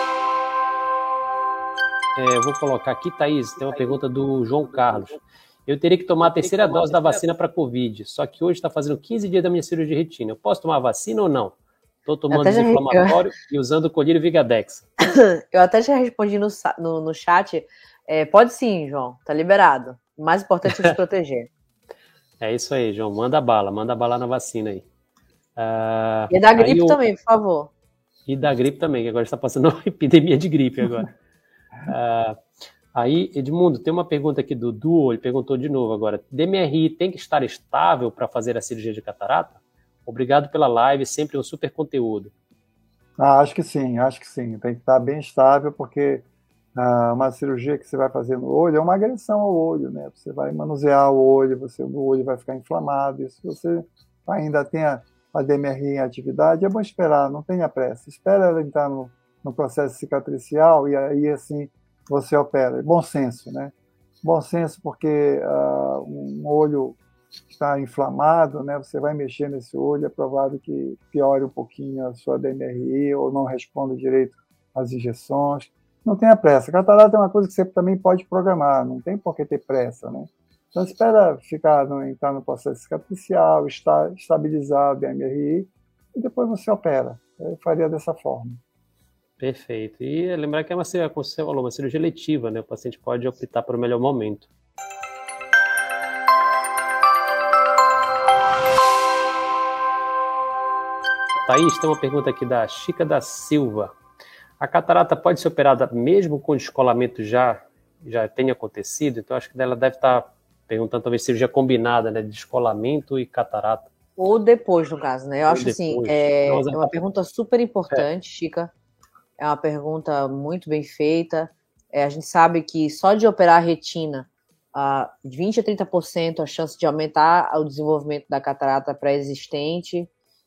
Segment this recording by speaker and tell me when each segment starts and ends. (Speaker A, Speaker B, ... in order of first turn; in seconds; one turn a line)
Speaker A: 2.1-14.8
Speaker B: 12.3-13.2
Speaker B: 15.1-21.5
Speaker A: 22.4-24.8
Speaker A: 25.6-27.0
Speaker B: 26.3-27.7
Speaker A: 28.2-31.1
Speaker A: 31.8-32.4
Speaker A: 32.9-42.3
Speaker C: 43.2-67.0
Speaker C: 67.5-88.6
Speaker A: 89.4-94.5
Speaker A: 101.4-103.9
Speaker A: 104.6-113.9
Speaker B: 114.2-118.7
Speaker A: 115.5-116.9
Speaker B: 119.4-130.1